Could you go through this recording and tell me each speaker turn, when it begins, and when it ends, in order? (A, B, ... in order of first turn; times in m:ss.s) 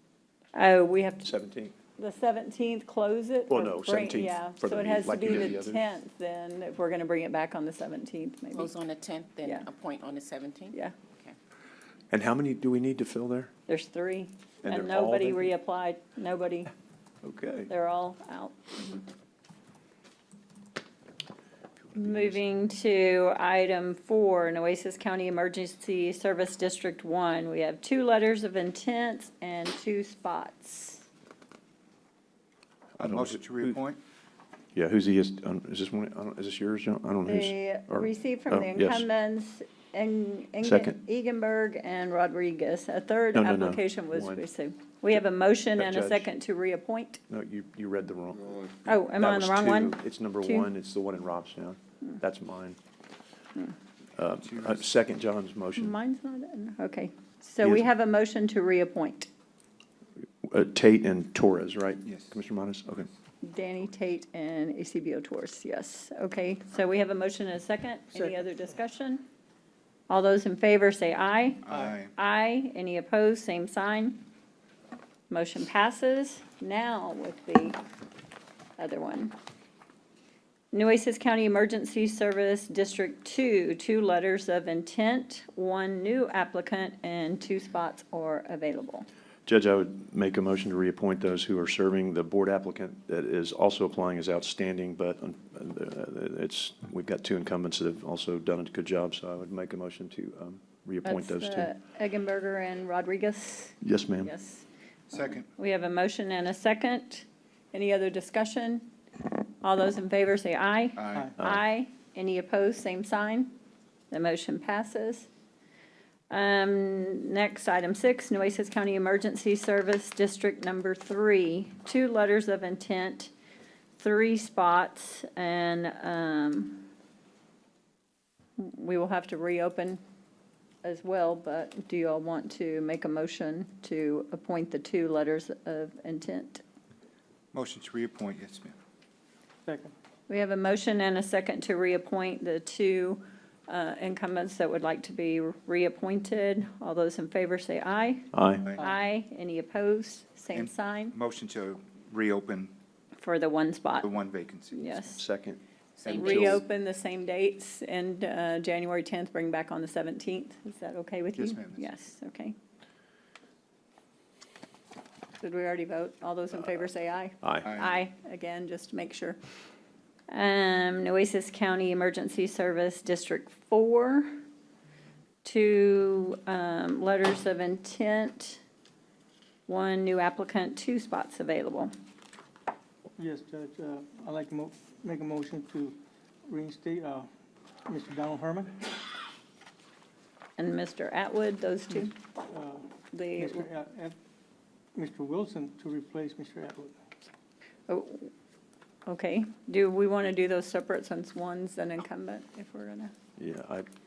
0:00.5-0:01.3 A
0:01.2-0:01.7 B
0:02.0-0:08.7 A
0:03.5-0:05.8 B
0:08.5-0:11.4 C
0:12.1-0:13.5 B
0:13.7-0:16.7 A
0:14.6-0:15.5 B
0:17.2-0:17.7 B
0:17.7-0:19.0 A
0:22.0-0:22.3 B
0:22.0-0:31.0 A
0:33.0-0:33.8 B
0:33.0-0:34.0 D
0:34.8-0:39.1 B
0:37.3-0:47.2 A
0:40.6-0:41.0 B
0:43.4-0:44.4 B
0:45.8-0:46.3 B
0:47.3-0:52.8 B
0:48.9-0:50.7 A
0:54.2-0:56.0 B
0:54.4-0:54.9 D
0:55.8-0:59.3 A
1:00.4-1:03.1 B
1:02.0-1:02.3 D
1:03.4-1:09.2 A
1:08.1-1:08.5 E
1:10.1-1:14.2 A
1:11.6-1:12.1 D
1:15.3-1:17.8 A
1:18.8-1:19.4 A
1:20.7-1:29.1 A
1:29.5-1:41.7 B
1:41.0-1:44.7 A
1:43.8-1:44.3 B
1:45.1-1:45.5 D
1:45.5-1:48.9 A
1:49.6-1:53.5 A
1:51.0-1:51.3 D
1:54.1-1:55.3 A
1:56.3-2:03.3 A
2:04.0-2:06.9 A
2:08.6-2:10.0 A
2:10.8-2:16.6 A
2:17.5-2:18.7 D
2:19.7-2:19.9 E
2:20.3-2:31.2 A
2:28.3-2:28.7 B
2:28.6-2:28.9 D
2:30.5-2:32.7 D
2:33.2-2:34.1 A
2:34.0-2:34.8 D
2:34.7-2:35.2 A
2:35.1-2:36.6 B
2:36.0-2:36.5 C
2:36.0-2:36.6 D
2:36.1-2:42.6 A
2:41.4-2:41.9 D
2:45.4-2:49.4 A
2:47.4-2:47.7 B
2:50.3-2:54.4 A
2:55.4-2:58.6 A
2:59.7-3:01.9 A
3:03.2-3:07.3 E
3:07.9-3:08.9 E
3:10.6-3:12.2 A
3:12.5-3:12.8 E
3:13.1-3:13.7 A
3:13.4-3:14.2 E
3:15.0-3:17.0 E
3:17.9-3:18.3 A
3:19.1-3:23.1 A
3:23.4-3:23.9 B